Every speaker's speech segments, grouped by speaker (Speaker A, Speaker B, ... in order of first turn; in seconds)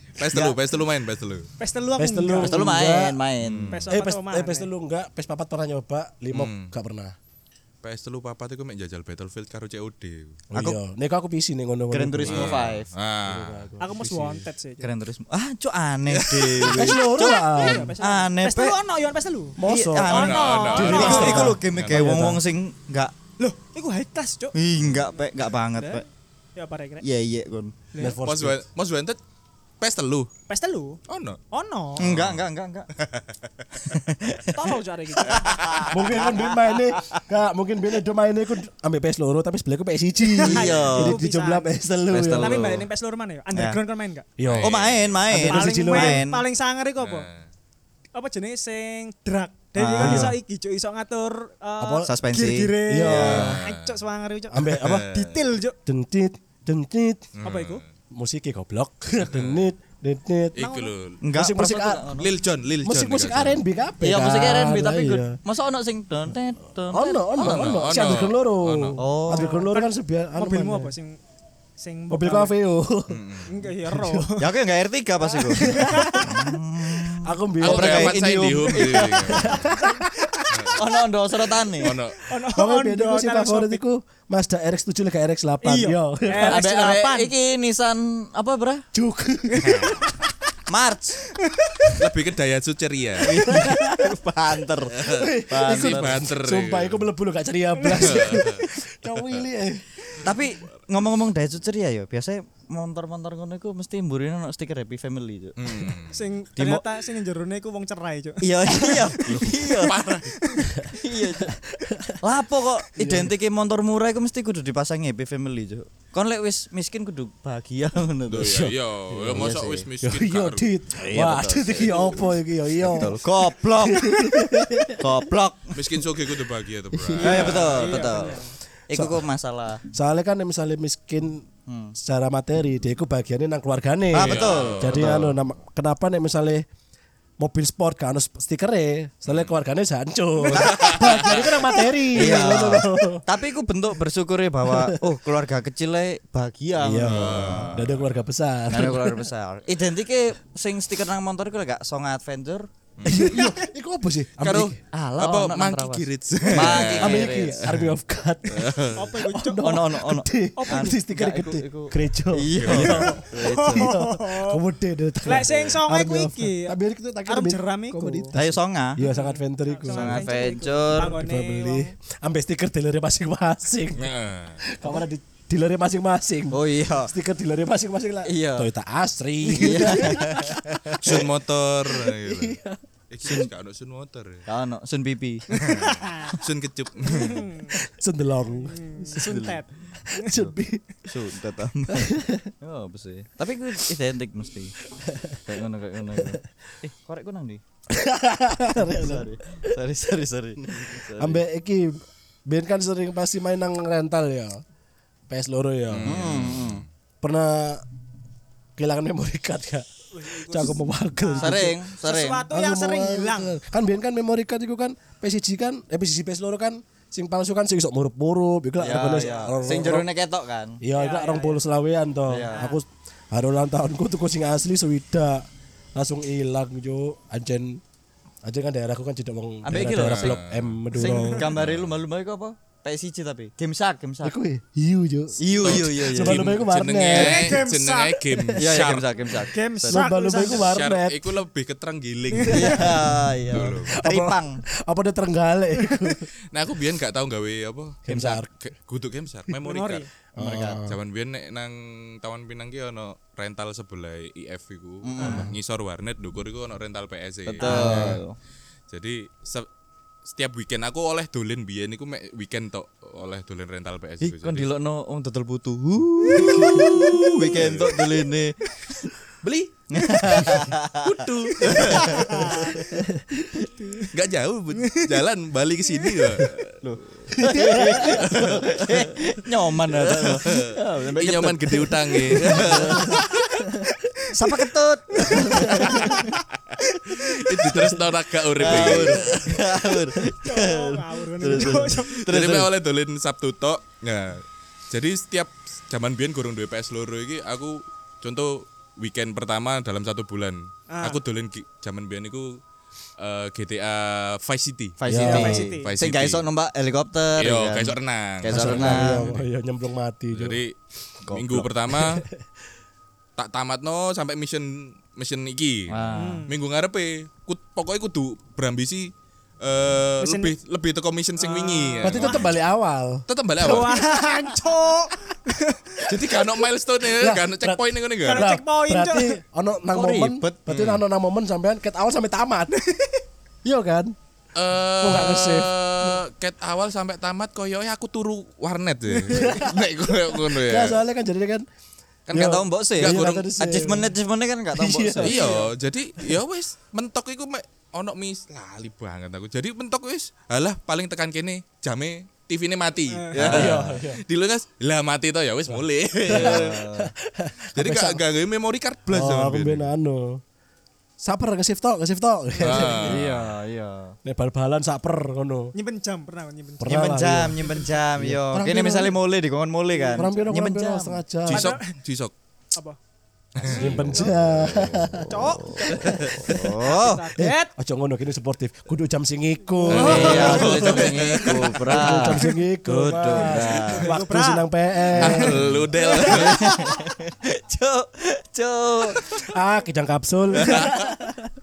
Speaker A: 0.2-1.5, 3.4-3.9, 6.3-6.7, 7.8-10.4, 12.2-13.7, 16.1-16.9, 20.1-22.2, 28.2-29.2, 29.8-30.3, 31.1-31.4, 32.0-33.4, 44.4-45.2, 47.0-47.5, 53.2-54.0, 54.8-55.5, 57.4-57.8, 59.2-59.7, 60.5-61.2, 62.2-63.6, 67.4-69.0, 73.1-73.5, 77.6-79.7, 80.5-80.8, 81.8-82.2, 89.6-89.9, 92.0-93.6, 95.0-97.1, 98.0-98.7, 105.6-106.2, 109.2-110.5, 118.3-120.7, 125.7-128.0, 134.2-135.2, 139.3-139.6, 140.5-141.6, 147.0-148.2, 154.4-157.9, 158.5-159.1, 162.5-163.2, 174.0-174.6, 181.0-182.6, 183.1-184.5, 185.6-187.5, 205.9-206.9, 229.8-230.7, 231.5-232.0, 235.6-239.1, 240.4-244.0, 246.5-258.2, 258.9-259.7, 260.3-264.7, 266.4-268.2, 269.4-272.3, 274.1-276.9, 278.1-279.1, 279.9-283.6, 285.9-289.6, 292.1-302.6, 303.2-306.4, 307.4-309.5, 310.3-310.8, 311.3-312.3, 313.4-322.5, 323.3-324.0, 326.1-328.5, 330.7-331.0, 334.6-341.0, 342.3-343.5, 345.2-356.8, 357.8-359.9, 362.6-363.4, 371.5-372.3, 373.6-375.1, 379.9-382.3, 385.2-386.8, 390.6-391.1
Speaker B: 0.3-0.6, 2.0-3.2, 3.9-7.2, 10.5-14.5, 16.6-17.9, 19.6-22.4, 28.0-28.6, 35.9-42.8, 44.4-46.2, 50.0-50.4, 51.8-52.1, 52.9-53.6, 54.5-55.0, 55.9-57.3, 58.1-60.6, 61.3-62.1, 62.8-65.4, 66.9-70.9, 72.1-73.2, 73.8-74.5, 75.7-76.3, 77.1-78.2, 79.3-80.5, 82.5-86.6, 88.9-90.3, 93.4-94.2, 95.1-100.3, 110.8-112.2, 113.0-113.3, 118.4-123.2, 123.8-125.1, 126.9-127.6, 128.9-129.3, 129.9-136.6, 137.4-143.2, 144.7-145.0, 146.8-149.3, 153.1-154.8, 156.5-170.3, 170.9-174.1, 174.6-181.2, 181.9-183.5, 187.8-190.8, 191.9-192.5, 194.9-195.4, 196.1-196.5, 197.9-199.7, 200.7-204.6, 205.3-206.3, 207.2-207.8, 208.8-211.8, 212.5-220.1, 220.8-227.8, 228.4-231.5, 234.2-237.6, 239.9-241.3, 243.5-246.3, 248.1-248.5, 250.4-251.0, 255.3-255.6, 257.6-258.2, 266.4-266.9, 272.8-273.5, 277.4-278.5, 282.4-283.2, 285.3-286.2, 287.6-290.3, 291.5-291.8, 305.1-305.7, 308.5-310.6, 312.0-312.4, 322.0-324.6, 327.1-332.7, 333.6-334.1, 335.0-336.2, 339.2-341.6, 342.3-344.1, 344.7-345.6, 353.4-354.2, 355.7-358.2, 359.1-360.4, 361.2-363.3, 364.2-365.7, 366.8-367.6, 368.2-369.2, 370.1-371.7, 373.7-375.5, 376.1-376.8, 377.4-385.8, 389.5-391.5
Speaker C: 1.6-2.6, 3.7-4.7, 13.8-14.9, 17.0-21.5, 23.4-24.6, 25.1-26.0, 26.6-27.1, 27.9-28.2, 30.5-31.0, 31.5-32.1, 34.5-35.9, 40.2-41.7, 42.3-44.3, 45.3-47.3, 48.1-55.8, 57.4-57.8, 60.5-60.9, 69.3-71.2, 71.8-72.5, 73.5-74.5, 75.2-76.5, 79.7-80.0, 82.2-83.8, 85.6-87.3, 89.5-89.9, 91.4-91.9, 97.8-98.4, 106.1-110.9, 127.3-128.5, 153.3-153.6, 158.9-159.8, 160.6-160.9, 163.3-164.6, 165.2-168.4, 169.0-171.9, 179.8-180.1, 185.5-186.4, 187.1-187.8, 188.5-190.4, 210.1-213.5, 219.1-219.6, 220.9-221.6, 222.5-222.8, 231.0-231.5, 237.1-238.5, 239.3-240.8, 242.3-242.8, 249.6-250.1, 255.2-255.5, 271.8-272.8, 273.7-274.1, 274.8-275.2, 283.7-286.2, 286.9-287.6, 290.4-292.3, 300.9-301.2, 305.2-305.9, 316.2-316.6, 320.2-320.5, 321.4-322.5, 323.6-326.4, 328.2-329.4, 332.8-333.2, 339.3-339.6, 353.1-353.4, 365.7-366.9, 367.6-367.9, 369.9-370.4, 371.5-371.9, 373.7-374.3, 375.3-377.7, 379.8-381.0, 383.6-385.5, 386.1-387.1
Speaker D: 2.4-3.8, 11.9-12.9, 14.8-18.8, 19.6-23.1, 24.5-26.0, 27.0-27.8, 32.0-32.9, 33.8-37.2, 40.4-41.1, 42.1-42.9, 44.6-46.4, 49.8-50.3, 52.0-53.5, 61.2-62.3, 64.0-68.2, 69.0-69.7, 74.4-79.6, 80.8-82.0, 86.4-88.8, 90.7-91.2, 93.2-96.2, 100.2-106.0, 106.6-106.8, 108.4-109.9, 110.9-111.6, 112.2-118.7, 119.3-119.9, 121.0-124.1, 125.0-125.8, 127.2-129.8, 131.7-131.9, 134.1-135.3, 140.5-141.6, 142.1-147.8, 148.7-153.3, 154.9-157.6, 159.6-163.9, 168.3-169.0, 169.9-171.2, 176.5-177.1, 178.2-178.7, 179.5-181.2, 184.5-185.7, 189.2-189.5, 190.3-194.8, 195.5-197.6, 198.8-201.4, 206.1-206.8, 211.4-212.4, 218.8-220.8, 222.3-222.6, 229.6-230.4, 230.9-234.3, 235.4-236.6, 238.6-240.0, 242.5-244.6, 250.4-250.8, 255.0-255.5, 257.5-258.4, 264.2-269.1, 269.9-271.1, 271.6-273.0, 276.8-283.2, 284.3-286.3, 288.6-292.7, 305.0-309.2, 311.2-311.7, 315.9-316.4, 329.9-330.7, 342.3-345.4, 353.4-354.0, 356.2-357.1, 363.0-364.2, 366.9-371.2, 375.1-377.2, 379.9-384.1, 385.2-389.5, 390.6-390.9